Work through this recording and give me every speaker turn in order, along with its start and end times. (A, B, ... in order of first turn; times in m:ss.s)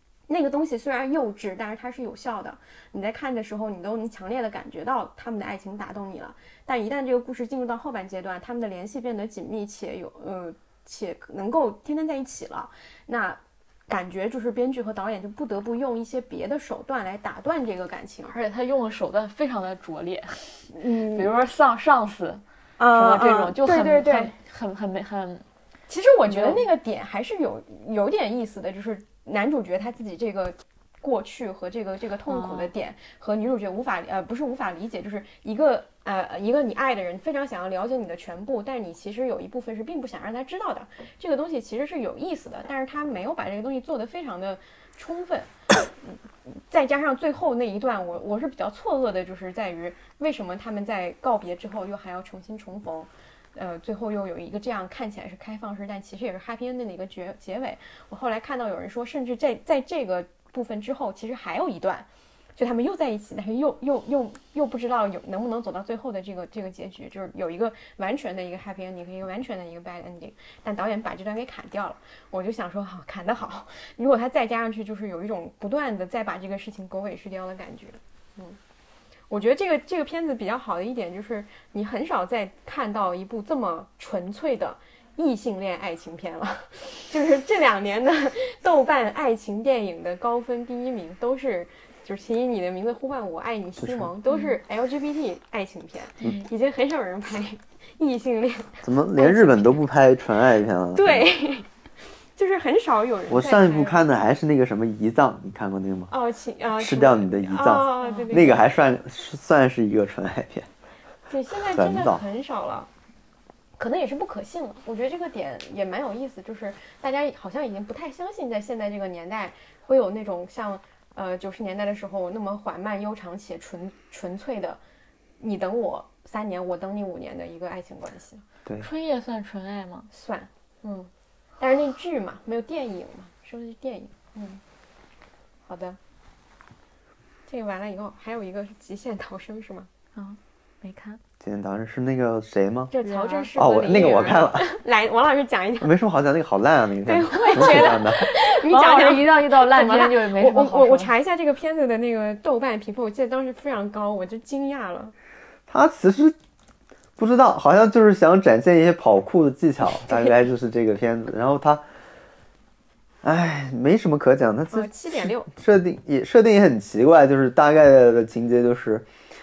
0:00.3-0:18.4 A
0:18.3-0:22.4 B
0:20.7-0:21.3 A
0:22.8-0:24.3 A
0:22.9-0:25.4 B
0:25.9-1:18.6 A
0:26.3-0:26.7 B
0:32.3-0:32.7 B
1:19.3-1:39.8 A
1:33.8-1:34.1 C
1:34.3-1:34.6 B
1:38.8-1:41.3 C
1:40.9-1:44.1 A
1:43.3-1:46.1 C
1:46.1-1:48.6 A
1:46.8-1:50.7 C
1:48.0-1:48.3 B
1:51.3-1:52.9 A
1:51.7-1:52.2 C
1:53.8-2:04.8 A
2:05.4-2:08.4 A
2:08.8-2:10.1 B
2:10.1-2:14.6 A
2:15.7-2:16.0 A
2:17.5-2:19.9 A
2:20.2-2:21.2 B
2:21.4-2:22.9 C
2:22.9-2:25.9 A
2:23.0-2:23.5 B
2:23.6-2:24.8 C
2:25.8-2:28.2 C
2:27.0-2:35.1 A
2:28.1-2:31.1 B
2:35.7-2:36.4 C
2:37.2-2:41.8 C
2:39.9-2:40.3 A
2:43.2-2:49.1 C
2:44.7-2:45.5 A